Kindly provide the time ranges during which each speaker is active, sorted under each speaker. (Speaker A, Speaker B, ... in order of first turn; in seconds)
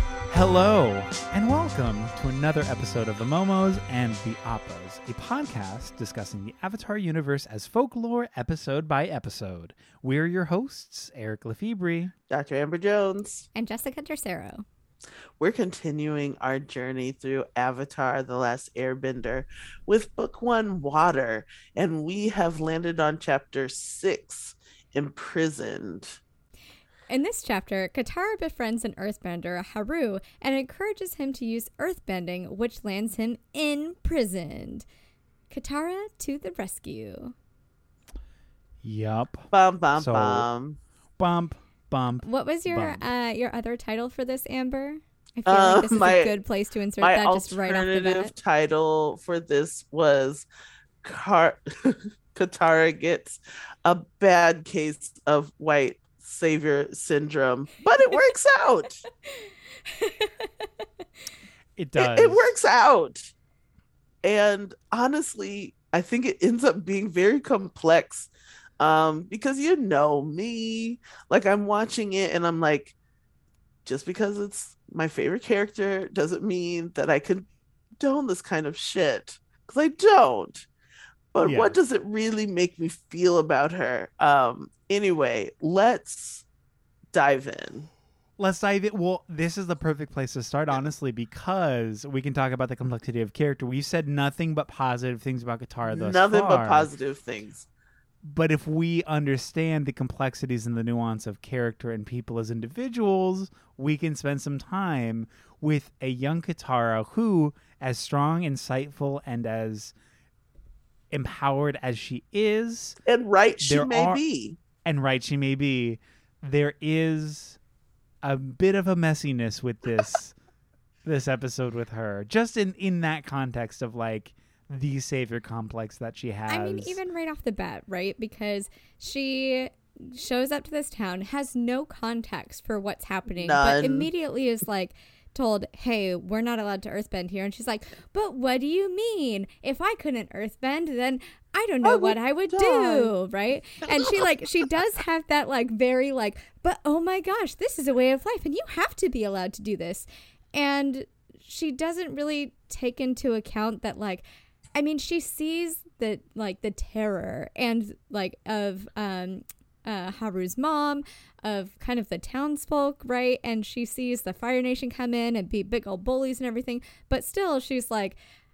Speaker A: 0.3-12.1, 38.8-40.5, 41.2-43.0, 61.8-62.5, 81.4-81.8, 88.4-96.9, 98.2-109.9, 111.1-113.0, 113.6-114.2, 114.8-117.6, 118.2-120.3, 121.0-127.0
Speaker B: 12.3-13.5, 15.4-26.2, 39.5-40.8, 45.5-46.4, 47.0-50.5, 51.0-59.0, 62.0-63.3, 64.2-72.9, 73.8-77.5, 78.0-80.7, 81.3-86.4, 87.1-87.9, 95.8-97.7, 113.0-114.6, 133.3-134.1, 141.8-143.1
Speaker C: 13.5-14.6, 27.1-34.8, 35.5-37.3, 42.2-48.3, 59.2-60.7, 126.5-154.2, 154.7-168.2